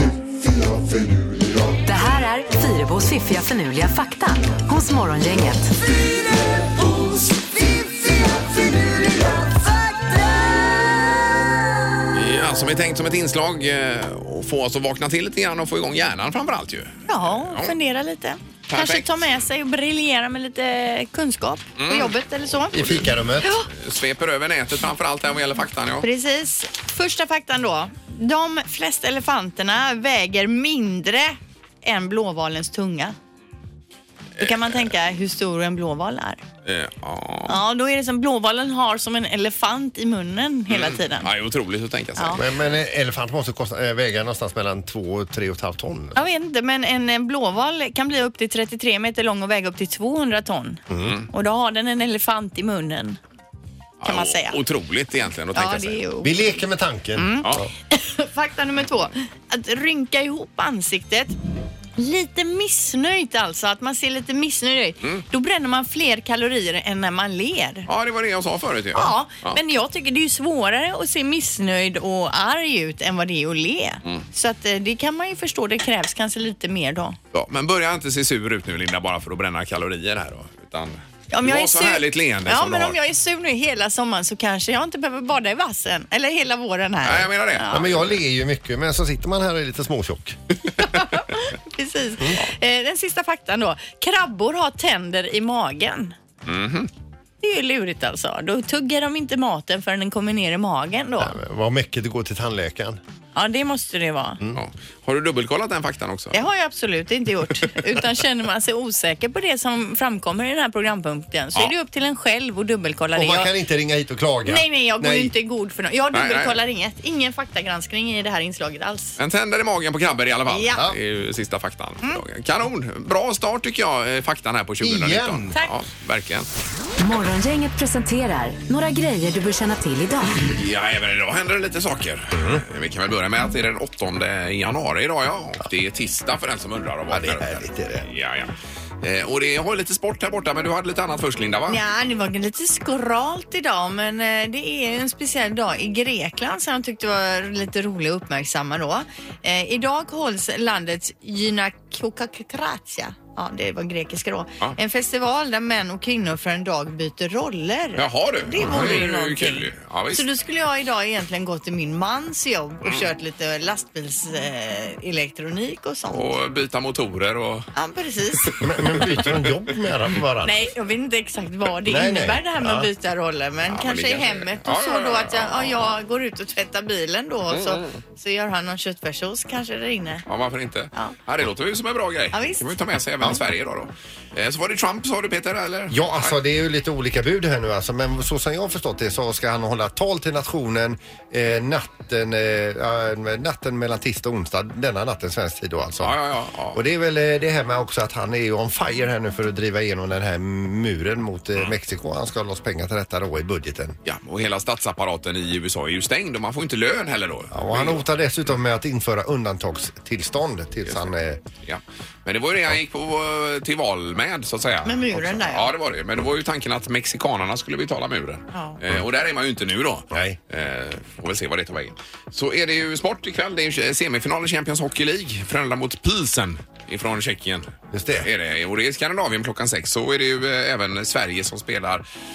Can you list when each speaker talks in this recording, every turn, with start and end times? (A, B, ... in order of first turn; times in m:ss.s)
0:01.8-0:05.7 A
0:12.1-0:17.7 B
0:17.1-0:23.7 C
0:18.7-0:19.2 B
0:21.8-0:22.1 B
0:22.7-0:23.5 D
0:23.7-0:26.1 B
0:26.0-0:33.1 C
0:34.4-0:34.8 B
0:34.4-0:36.4 C
0:36.6-0:37.6 B
0:37.5-0:41.3 C
0:40.7-0:42.6 B
0:42.2-0:42.4 C
0:42.3-0:46.2 D
0:46.1-0:53.2 C
0:50.9-0:51.2 D
0:54.0-0:56.0 B
0:54.0-0:54.6 C
0:55.5-0:56.6 C
0:56.2-0:57.7 D
0:57.1-1:01.3 C
1:02.0-1:07.9 C
1:07.9-1:09.6 B
1:08.9-1:17.2 C
1:17.3-1:23.0 B
1:21.3-1:27.9 C
1:27.0-1:28.1 B
1:27.7-1:30.4 D
1:30.8-1:36.1 C
1:36.4-1:36.9 B
1:37.4-1:41.3 C
1:41.2-1:43.0 D
1:43.3-1:44.4 C
1:44.5-1:46.4 B
1:46.3-1:53.5 C
1:53.1-1:55.3 D
1:54.4-1:59.2 C
1:56.1-1:56.6 B
1:59.2-2:06.5 B
2:00.5-2:00.8 C
2:00.7-2:01.0 D
2:04.8-2:05.6 D
2:07.0-2:10.4 A
2:10.4-2:21.8 B
2:12.3-2:12.6 D
2:17.1-2:18.1 D
2:21.7-2:46.2 C
2:38.0-2:40.3 B
2:46.1-2:47.7 B
2:47.7-2:48.5 C
2:48.6-2:50.6 D
2:49.1-2:49.4 B
2:50.4-3:00.2 C
2:51.9-2:52.9 D
2:53.7-2:55.9 B
2:57.5-2:58.0 B
3:00.3-3:06.4 B
3:02.3-3:02.7 C
3:05.9-3:16.2 D
3:16.0-3:16.8 B
3:16.7-3:24.0 D
3:24.0-3:28.0 B
3:27.5-3:31.4 D
3:30.8-3:47.7 B
3:34.8-3:35.7 C
3:38.5-3:38.8 C
3:40.1-3:40.4 D
3:47.9-3:48.3 D
3:48.2-3:52.0 B